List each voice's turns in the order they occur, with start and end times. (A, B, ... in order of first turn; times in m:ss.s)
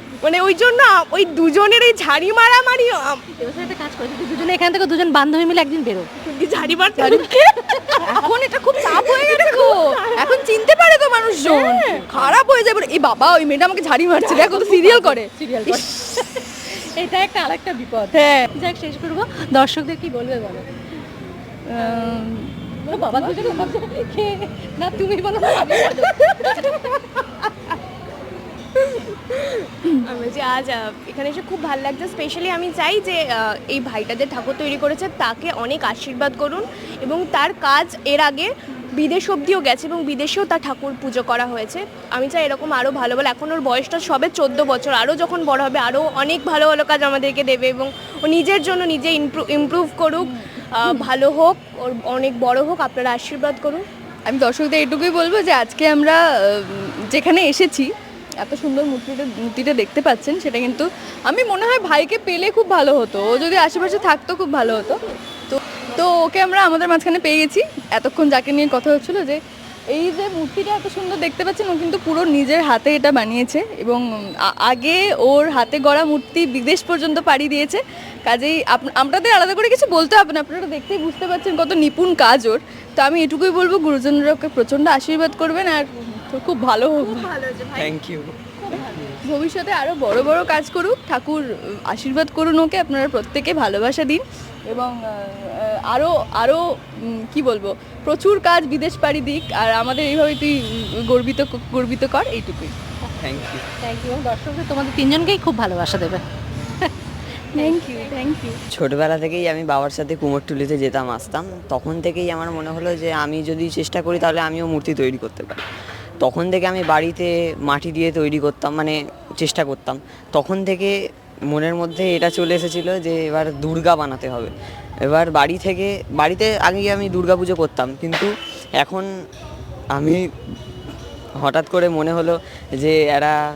0:00.2-0:03.2 A
0:03.4-0:06.1 B
0:06.2-0:08.3 A
0:07.0-0:07.3 C
0:08.0-0:15.3 C
0:08.9-0:10.4 A
0:11.4-0:11.8 A
0:11.9-0:12.4 B
0:14.2-0:20.7 B
0:18.1-0:18.5 C
0:21.7-0:23.5 C
0:21.8-0:22.2 B
0:22.8-0:27.5 B
0:25.7-0:25.9 A
0:28.8-0:53.8 A
0:50.2-0:50.5 C
0:54.3-1:09.4 C
1:09.9-1:27.3 C
1:27.0-1:28.0 A
1:27.8-1:28.4 D
1:28.7-1:29.2 A
1:29.2-1:42.7 C
1:43.2-1:43.7 D
1:43.8-1:46.2 B
1:47.5-1:48.6 C
1:47.6-1:48.1 B
1:48.7-1:55.7 D
1:56.2-2:01.0 D
2:01.5-2:04.5 D
2:05.0-2:09.1 D
2:09.9-2:10.2 D
2:11.4-2:13.4 D